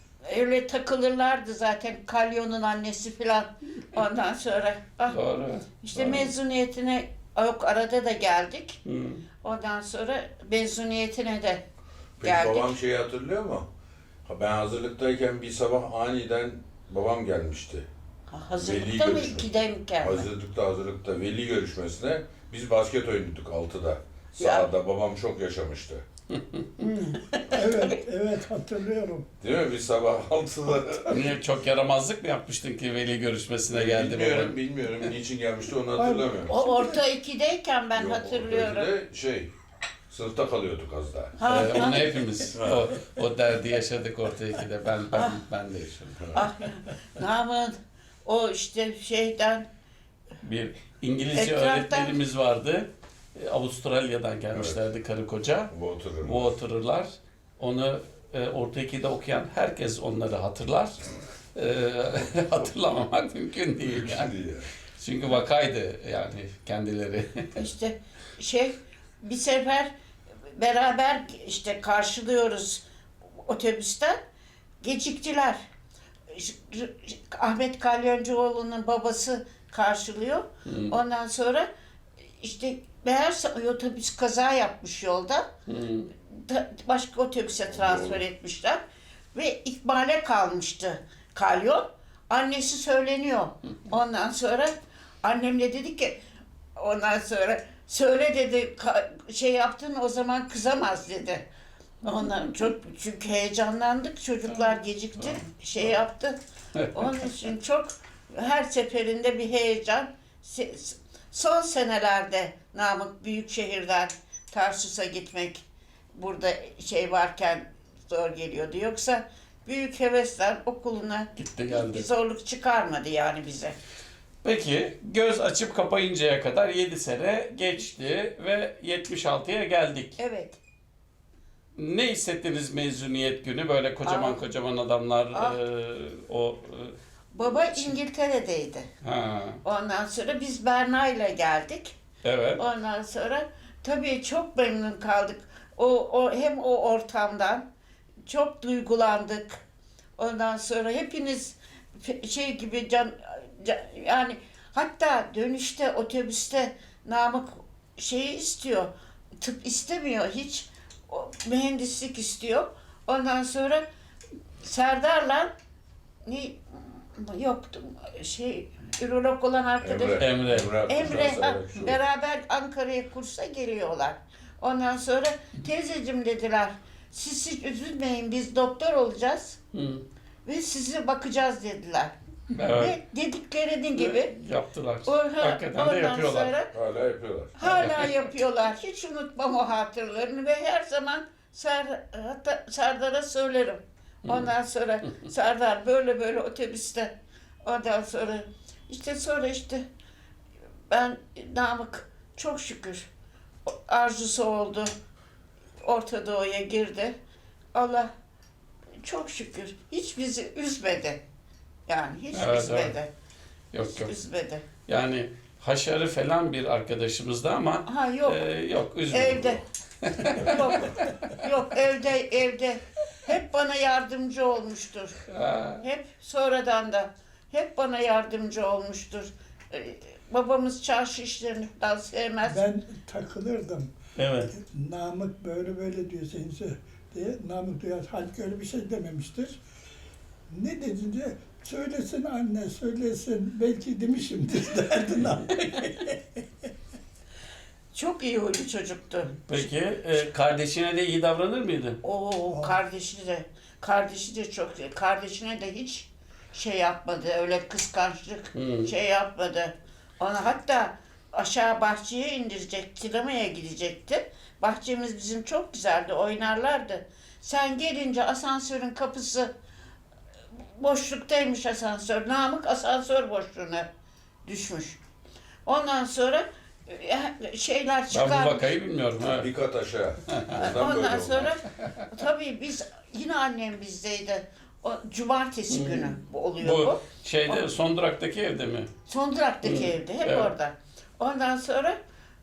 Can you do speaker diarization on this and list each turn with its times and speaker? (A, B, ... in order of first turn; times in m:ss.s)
0:00.2-0:05.2 A
0:05.1-0:06.3 B
0:05.8-0:08.8 A
0:08.8-0:09.2 B
0:09.4-0:11.6 A
0:12.2-0:13.7 C
0:12.2-0:12.8 A
0:14.2-0:17.9 C
0:18.3-0:20.3 A
0:18.7-0:19.5 C
0:20.0-0:26.0 C
0:24.3-0:24.7 A
0:26.8-0:28.0 A
0:27.5-0:29.3 D
0:29.4-0:31.2 C
0:31.1-0:35.1 B
0:33.7-0:36.5 C
0:36.0-0:37.0 D
0:36.4-0:38.9 A
0:38.0-0:39.5 C
0:40.1-0:41.4 C
0:41.4-0:42.5 A
0:41.4-0:46.5 B
0:45.1-0:45.4 A
0:46.3-0:47.7 A
0:48.2-0:49.6 A
0:50.4-0:55.7 B
0:51.3-0:52.2 A
0:55.7-0:56.4 C
0:56.2-1:01.0 B
1:01.5-1:04.4 B
1:04.0-1:04.7 C
1:05.0-1:07.6 B
1:07.6-1:09.9 A
1:10.5-1:12.8 A
1:13.4-1:14.2 A
1:14.8-1:15.6 A
1:16.3-1:21.7 A
1:20.7-1:21.0 B
1:22.4-1:25.4 A
1:25.7-1:26.1 B
1:26.2-1:28.8 A
1:27.8-1:28.1 C
1:29.3-1:36.2 A
1:36.8-1:41.4 A
1:42.0-2:03.8 A
1:46.8-1:47.2 B
2:01.4-2:02.1 B
2:04.4-2:10.2 B
2:10.2-2:10.6 A
2:11.8-2:16.9 B
2:14.0-2:14.4 A
2:15.3-2:15.6 A
2:17.3-2:18.9 A
2:17.4-2:17.9 B
2:19.0-2:19.6 B
2:19.6-2:22.0 A
2:22.2-2:22.6 B
2:22.6-2:27.6 A
2:28.3-2:29.6 A
2:30.2-2:38.9 A
2:39.4-2:43.8 A
2:44.6-2:45.5 A
2:46.3-2:59.6 A
2:49.8-2:51.9 C
2:50.2-2:51.1 B
2:59.7-3:00.0 B
3:00.4-3:02.1 A
3:02.5-3:03.0 B
3:02.6-3:04.3 A
3:04.0-3:06.6 B
3:05.0-3:06.7 A
3:06.7-3:07.6 C
3:07.6-3:17.1 A
3:07.6-3:08.2 B
3:14.2-3:14.5 B
3:17.6-3:19.8 A
3:20.9-3:23.1 A
3:23.7-3:24.9 A
3:25.8-3:27.1 A
3:27.7-3:28.1 A
3:29.0-3:31.2 A
3:31.9-3:33.1 A
3:32.3-3:33.0 B
3:33.7-3:34.1 B
3:33.8-3:34.7 A
3:34.9-3:41.4 B
3:37.9-3:38.4 A
3:39.1-3:39.6 A
3:40.3-3:45.2 A
3:45.3-3:45.8 B
3:45.8-3:52.6 A
3:52.4-3:53.9 D
3:54.2-3:54.6 B
3:54.5-3:59.6 D
4:00.5-4:06.4 D
4:07.9-4:09.7 A
4:09.3-4:12.0 B
4:12.0-4:29.5 A
4:12.5-4:12.8 D
4:18.5-4:18.9 B
4:30.6-4:33.9 A
4:34.5-4:35.0 A
4:35.7-4:38.7 A
4:38.1-4:39.5 B
4:39.3-4:41.5 C
4:40.3-4:40.7 B
4:40.5-4:47.6 A
4:45.7-4:48.9 B
4:49.1-4:52.0 A
4:49.6-4:50.5 B